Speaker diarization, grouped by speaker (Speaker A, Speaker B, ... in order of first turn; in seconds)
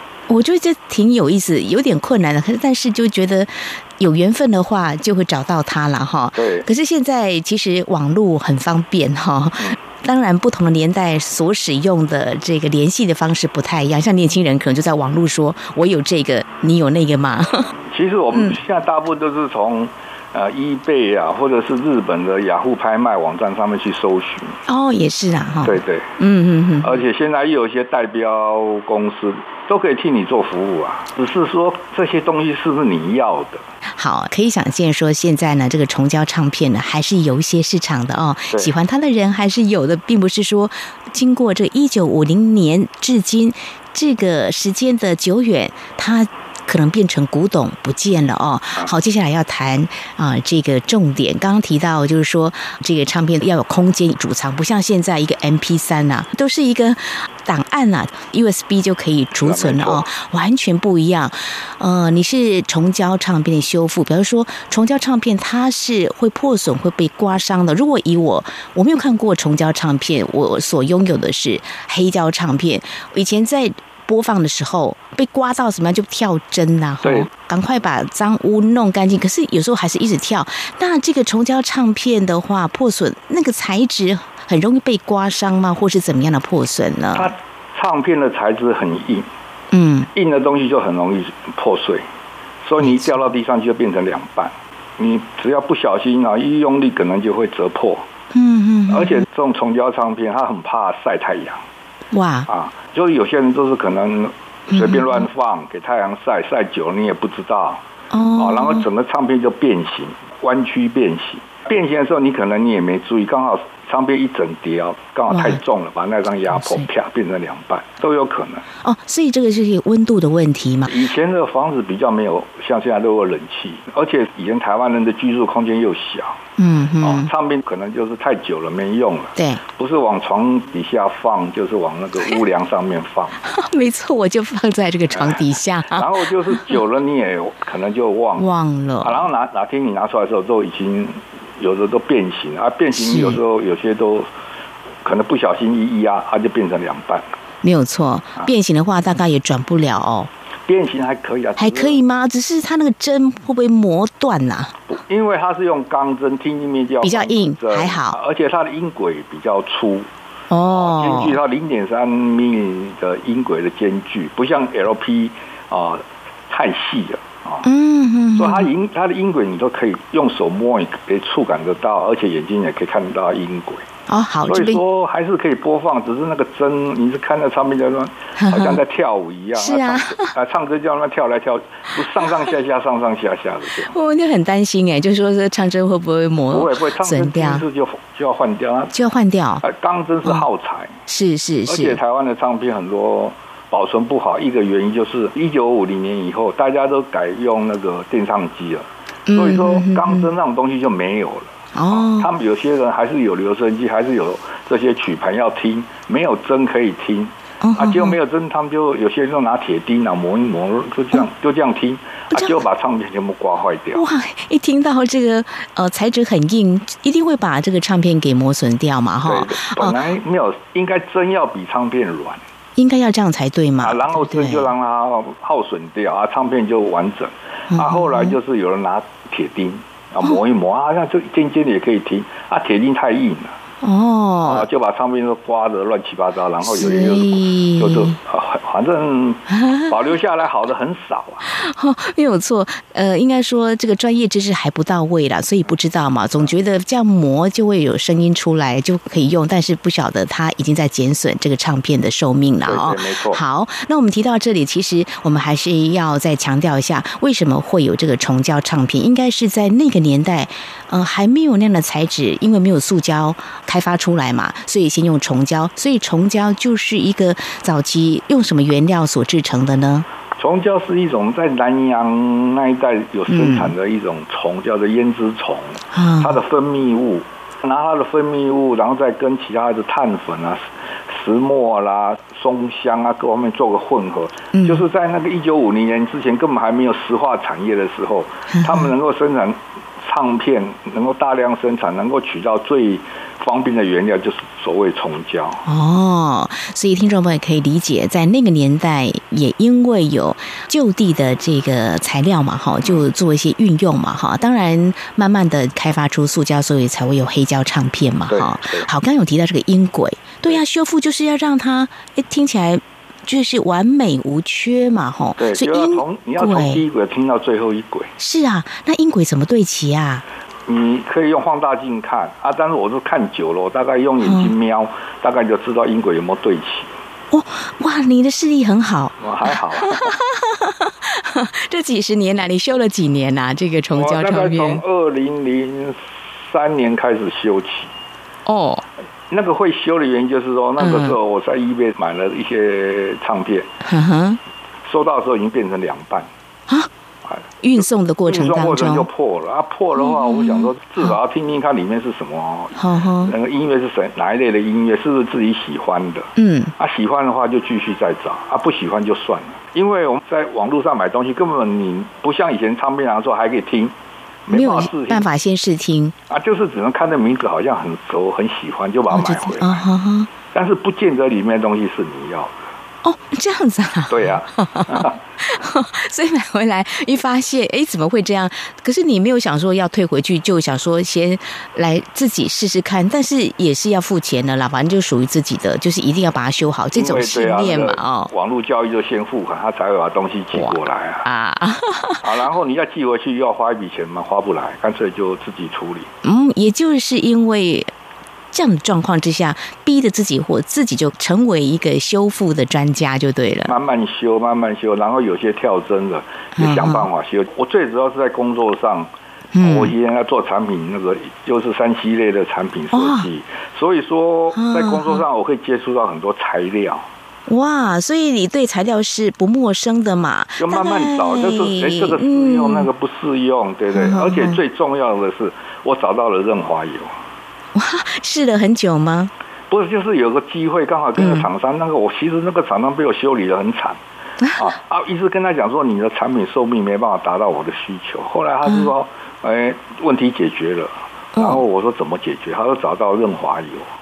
Speaker A: 0.3-17.7, 24.7-27.0, 34.0-87.3, 89.7-90.1, 92.8-93.2, 98.3-99.2, 102.1-102.5, 104.7-105.2, 108.1-108.9, 115.3-115.6, 116.5-116.9, 118.8-120.9, 126.6-127.3, 129.3-129.6, 133.4-136.7, 138.4-139.2, 142.9-143.4, 147.6-150.3, 151.6-154.8, 157.0-158.2, 160.5-161.4, 167.6-168.7, 174.1-174.8, 178.4-178.8, 179.6-180.3, 183.9-187.6, 188.9-189.6, 191.1-192.0, 199.3-200.3, 201.7-202.3, 207.6-208.2, 213.9-219.9, 222.8-224.7, 227.7-228.3, 233.8-234.7, 236.6-238.2, 239.5-239.9, 241.4-270.1, 273.3-273.7, 275.9-276.4, 284.5-284.8, 288.5-288.9, 295.6-316.8, 318.2-320.2, 324.2-324.5, 327.3-334.8, 338.4-338.8, 340.8-341.2, 343.8-344.4, 347.6-349.1, 349.9-351.1, 352.8-353.3, 356.4-356.7, 364.5-366.1, 369.1-370.3, 373.0-388.3, 390.5-392.2, 396.2-397.9, 398.5-403.7, 406.6-407.1, 409.5-409.9, 412.9-413.3, 414.5-415.2, 417.5-422.9, 423.9-424.6, 427.7-429.3, 431.2-431.5, 438.6-438.9, 441.4-441.6
Speaker B: 6.3-6.7, 17.9-24.6, 25.6-26.1, 26.8-33.6, 59.4-60.1, 77.0-77.3, 87.1-89.3, 90.1-92.0, 92.6-98.1, 98.9-101.6, 102.5-107.8, 108.4-118.6, 120.9-126.4, 127.0-133.4, 135.9-138.5, 139.0-144.3, 145.0-147.3, 150.7-152.0, 154.9-160.1, 160.7-167.7, 168.3-173.8, 174.5-183.9, 186.5-188.9, 189.6-190.9, 191.7-214.0, 219.2-222.4, 223.8-233.6, 234.4-241.4, 252.6-253.4, 270.4-295.6, 308.3-308.9, 315.4-318.1, 320.7-326.9, 329.2-330.1, 333.9-337.9, 339.3-343.7, 344.8-346.3, 347.2-363.9, 364.4-365.2, 366.3-369.8, 370.5-372.7, 374.1-375.2, 386.9-391.2, 392.2-396.1, 403.6-417.1, 420.6-427.1, 429.7-434.0, 434.5-443.9